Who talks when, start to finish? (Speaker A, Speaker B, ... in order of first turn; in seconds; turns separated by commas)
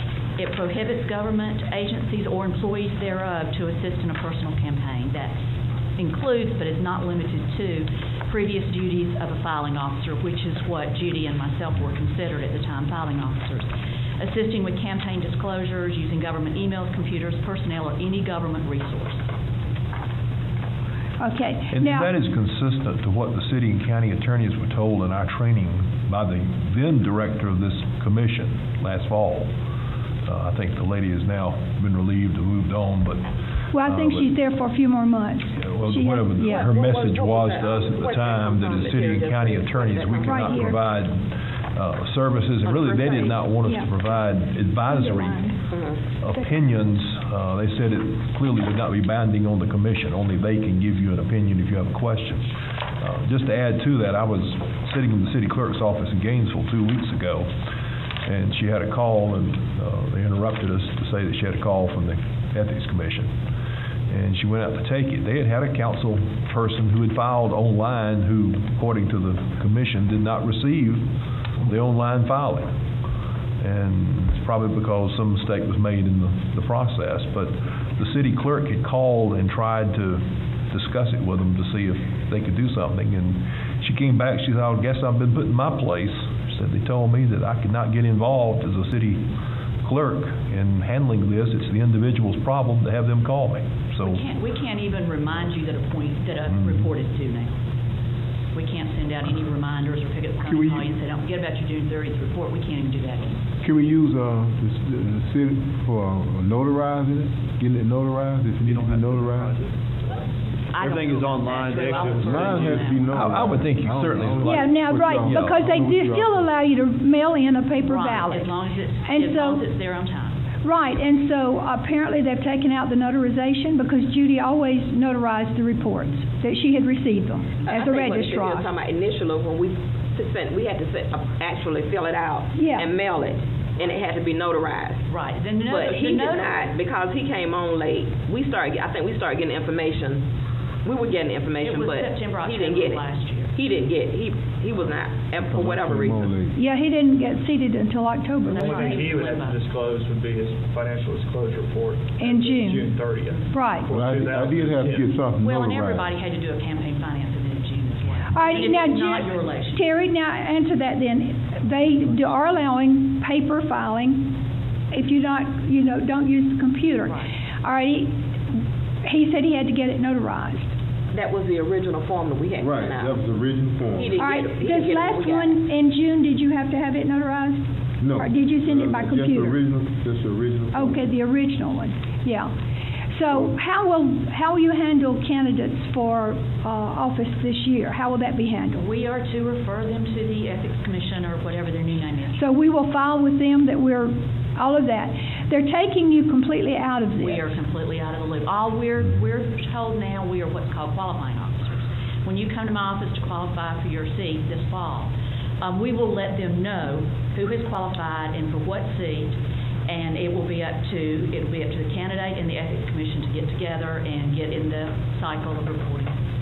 Speaker A: 0.4-5.3, Speaker A: 6.0-19.2, Speaker B: 21.2-22.1, Speaker C: 21.7-29.5, Speaker C: 30.2-34.4, Speaker B: 33.7-36.7, Speaker C: 35.6-52.5, Speaker D: 36.4-40.8, Speaker B: 40.2-40.8, Speaker D: 42.6-43.5, Speaker B: 44.9-45.6, Speaker D: 45.7-46.0, Speaker C: 53.0-57.5, Speaker C: 58.3-63.3, Speaker C: 64.1-71.1, Speaker C: 71.6-72.7, Speaker C: 73.6-89.2, Speaker C: 89.8-94.2, Speaker A: 94.0-97.6, Speaker A: 98.5-103.4, Speaker E: 100.5-100.9, Speaker E: 103.6-109.5, Speaker F: 108.7-109.6, Speaker A: 110.7-113.6, Speaker F: 110.8-112.2, Speaker E: 112.0-116.5, Speaker C: 113.1-115.7, Speaker B: 114.4-118.5, Speaker A: 117.8-120.4, Speaker B: 119.1-119.6, Speaker B: 120.6-128.7, Speaker D: 127.7-135.1, Speaker B: 132.6-132.9, Speaker A: 135.1-136.7, Speaker D: 135.7-140.2, Speaker D: 140.8-143.0, Speaker A: 141.6-143.6, Speaker D: 143.6-146.3, Speaker E: 145.4-146.6, Speaker B: 146.6-149.1, Speaker A: 148.5-149.6, Speaker F: 148.7-155.1, Speaker B: 152.2-152.9, Speaker B: 153.5-153.9, Speaker E: 153.9-156.1, Speaker A: 155.4-159.9, Speaker B: 158.3-164.4, Speaker B: 164.9-168.1, Speaker A: 167.0-167.3, Speaker B: 169.0-170.7, Speaker D: 171.1-173.1, Speaker E: 172.6-174.2, Speaker D: 173.9-175.6, Speaker B: 174.2-179.6, Speaker E: 178.0-181.1, Speaker B: 180.7-182.5, Speaker B: 183.1-188.8, Speaker A: 188.7-192.5, Speaker B: 192.4-197.5, Speaker A: 197.2-216.2